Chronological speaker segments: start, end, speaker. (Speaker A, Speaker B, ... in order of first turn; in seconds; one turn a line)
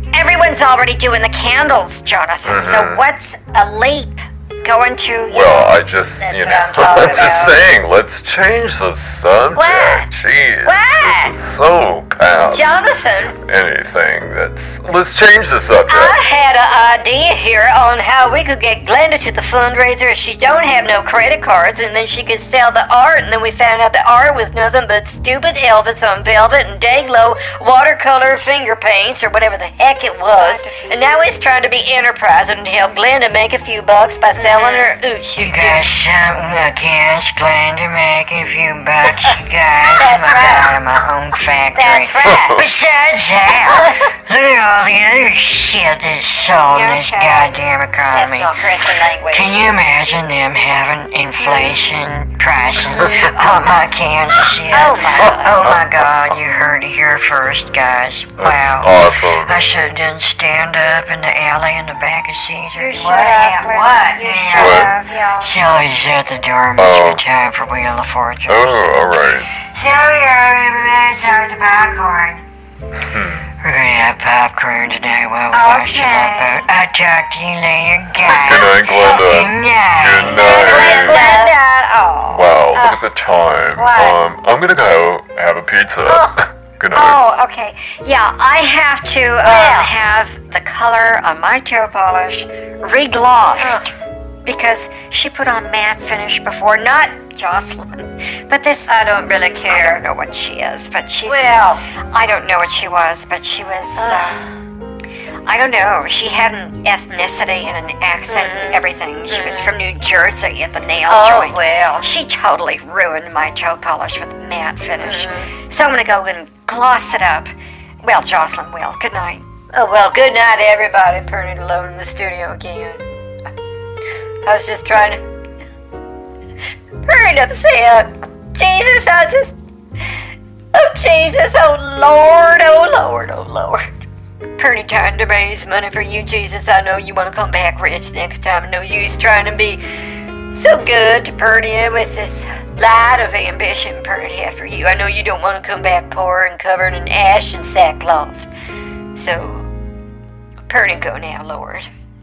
Speaker A: 0.1-5.8
Speaker B: 2.5-3.0
Speaker B: 5.3-12.8
Speaker C: 6.2-7.6
Speaker A: 6.5-7.6
Speaker C: 9.5-10.1
Speaker C: 10.6-11.4
Speaker C: 12.5-13.3
Speaker B: 13.3-16.2
Speaker C: 15.9-35.9
Speaker A: 30.3-30.8
Speaker A: 34.4-35.0
Speaker D: 35.4-48.5
Speaker C: 40.0-40.8
Speaker C: 41.7-42.6
Speaker C: 43.7-44.0
Speaker A: 46.6-49.6
Speaker D: 49.3-69.0
Speaker A: 54.7-55.6
Speaker B: 58.4-59.6
Speaker A: 62.8-65.5
Speaker B: 64.5-64.9
Speaker B: 66.8-67.2
Speaker B: 68.5-69.5
Speaker D: 69.6-72.4
Speaker B: 73.0-73.5
Speaker D: 73.6-81.1
Speaker A: 75.5-76.6
Speaker B: 78.2-81.2
Speaker A: 80.3-81.6
Speaker C: 80.4-83.0
Speaker B: 82.3-87.2
Speaker A: 83.8-84.2
Speaker A: 86.9-93.9
Speaker C: 89.4-89.9
Speaker C: 93.6-93.9
Speaker A: 94.4-99.0
Speaker C: 98.9-100.0
Speaker A: 99.7-104.4
Speaker C: 101.2-101.8
Speaker C: 104.0-104.5
Speaker A: 105.5-117.5
Speaker C: 108.3-109.7
Speaker C: 111.1-112.1
Speaker C: 115.0-115.5
Speaker A: 118.0-119.4
Speaker C: 119.7-123.0
Speaker C: 124.5-125.2
Speaker C: 127.0-129.5
Speaker C: 130.7-133.9
Speaker C: 134.6-139.8
Speaker C: 140.5-148.5
Speaker C: 149.2-149.7
Speaker C: 150.7-151.9